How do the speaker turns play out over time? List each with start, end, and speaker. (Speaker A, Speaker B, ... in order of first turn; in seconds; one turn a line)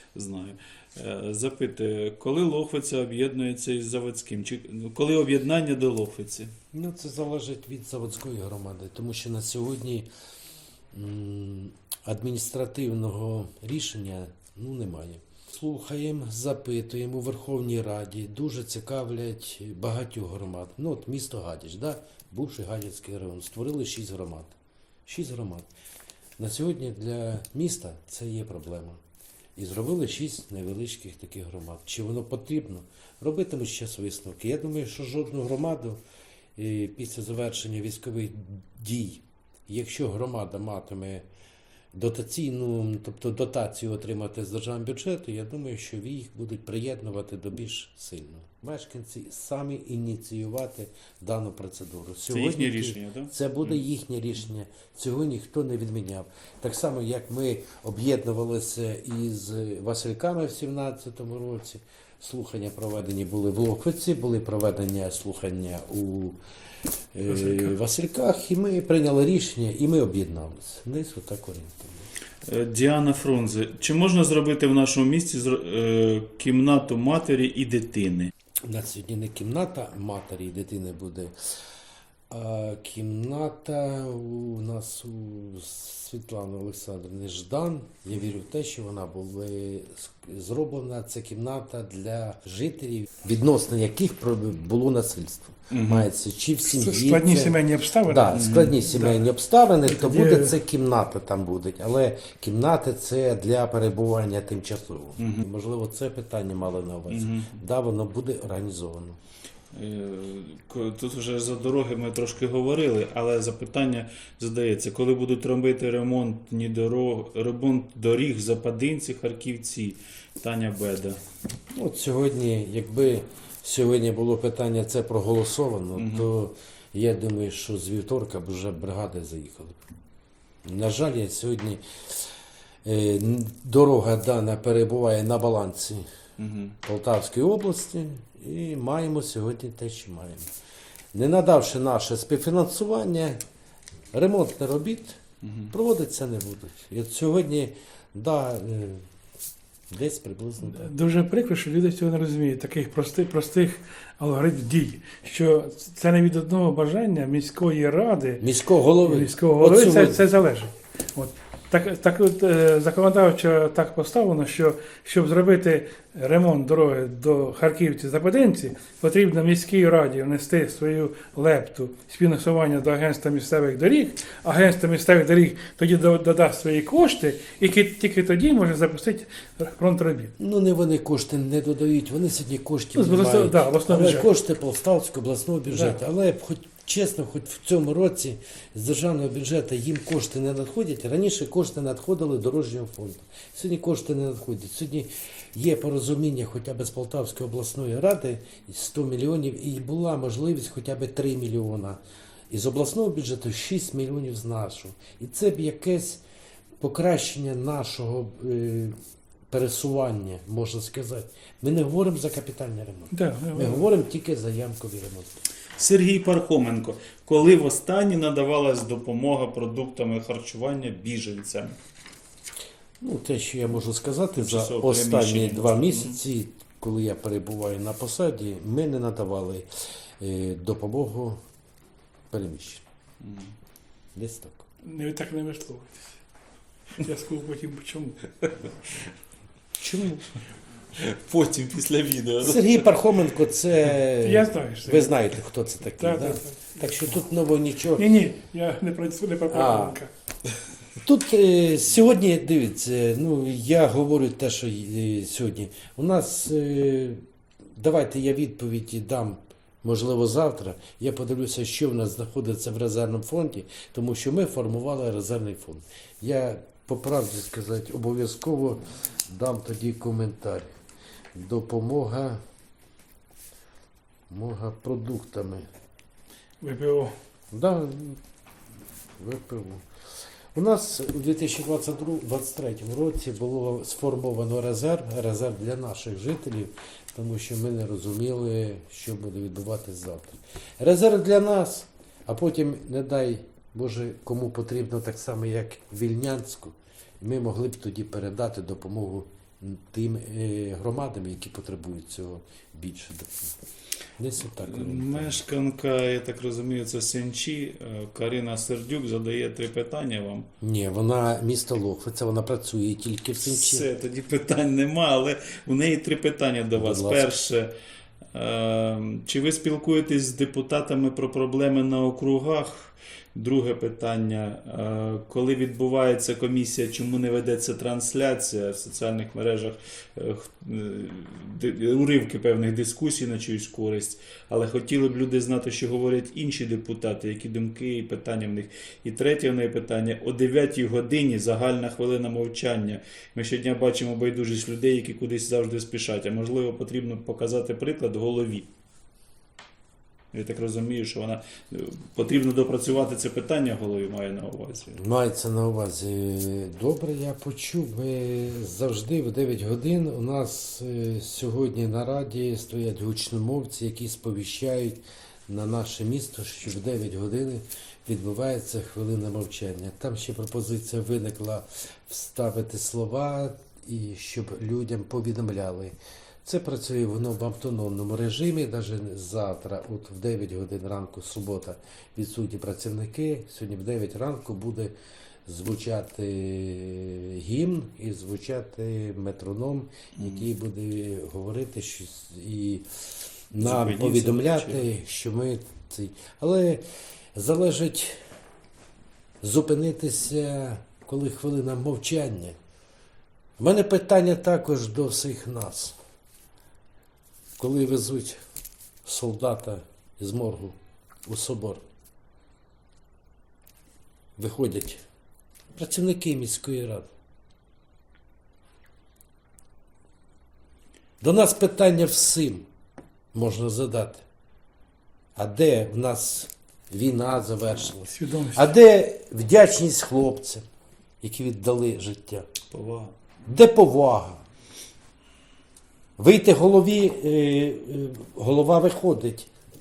Speaker A: 0.1-6.5
Speaker B: 6.7-10.1
Speaker B: 10.9-25.7
Speaker B: 26.4-29.0
Speaker B: 29.6-36.0
Speaker B: 36.5-41.2
Speaker B: 41.9-66.4
Speaker A: 52.3-53.8
Speaker B: 67.1-72.1
Speaker A: 72.4-78.3
Speaker B: 78.7-81.3
Speaker B: 82.3-109.2
Speaker A: 95.7-96.1
Speaker C: 96.7-99.3
Speaker A: 98.3-98.8
Speaker C: 99.8-100.6
Speaker A: 105.2-105.5
Speaker A: 107.1-107.6
Speaker A: 109.7-121.2
Speaker B: 121.7-129.8
Speaker A: 126.0-126.3
Speaker B: 130.6-132.2
Speaker B: 132.8-136.0
Speaker A: 136.4-136.8
Speaker B: 136.8-140.5
Speaker B: 141.1-143.4
Speaker B: 144.1-149.1
Speaker A: 145.4-145.7
Speaker B: 149.9-150.9
Speaker C: 150.6-158.4
Speaker B: 158.4-160.2
Speaker C: 159.0-180.3
Speaker B: 180.4-206.2
Speaker C: 182.9-184.3
Speaker C: 185.7-186.0
Speaker B: 206.8-208.9
Speaker B: 209.5-215.3
Speaker C: 213.1-213.9
Speaker A: 215.8-221.8
Speaker B: 223.0-229.7
Speaker A: 224.3-226.2
Speaker B: 230.2-231.4
Speaker B: 232.3-232.8
Speaker A: 233.2-233.5
Speaker B: 234.1-234.7
Speaker C: 234.8-236.2
Speaker C: 237.0-238.7
Speaker B: 239.8-240.3
Speaker A: 241.0-242.8
Speaker B: 242.4-248.1
Speaker C: 244.2-245.2
Speaker C: 246.0-247.0
Speaker C: 247.9-250.1
Speaker B: 249.5-250.0
Speaker B: 251.0-257.2
Speaker B: 257.7-270.7
Speaker B: 271.3-272.4
Speaker B: 274.3-275.6
Speaker C: 276.6-277.1
Speaker B: 277.5-278.2
Speaker B: 279.2-279.8
Speaker B: 280.5-303.5
Speaker B: 304.2-305.4
Speaker A: 304.6-310.5
Speaker B: 310.6-313.9
Speaker A: 313.4-317.7
Speaker B: 316.8-317.3
Speaker A: 318.3-348.7
Speaker A: 350.3-355.0
Speaker B: 354.9-384.9
Speaker B: 385.4-392.9
Speaker A: 390.2-390.4
Speaker B: 393.5-396.8
Speaker A: 393.6-394.8
Speaker B: 397.3-398.2
Speaker B: 399.4-402.6
Speaker B: 403.6-406.0
Speaker B: 407.6-408.4
Speaker B: 409.0-411.8
Speaker B: 414.4-415.0
Speaker B: 415.7-417.1
Speaker B: 421.2-422.7
Speaker B: 423.3-424.2
Speaker B: 425.4-430.6
Speaker C: 428.1-428.7
Speaker B: 431.2-432.5
Speaker A: 432.7-433.1
Speaker B: 433.5-434.4
Speaker B: 436.2-439.5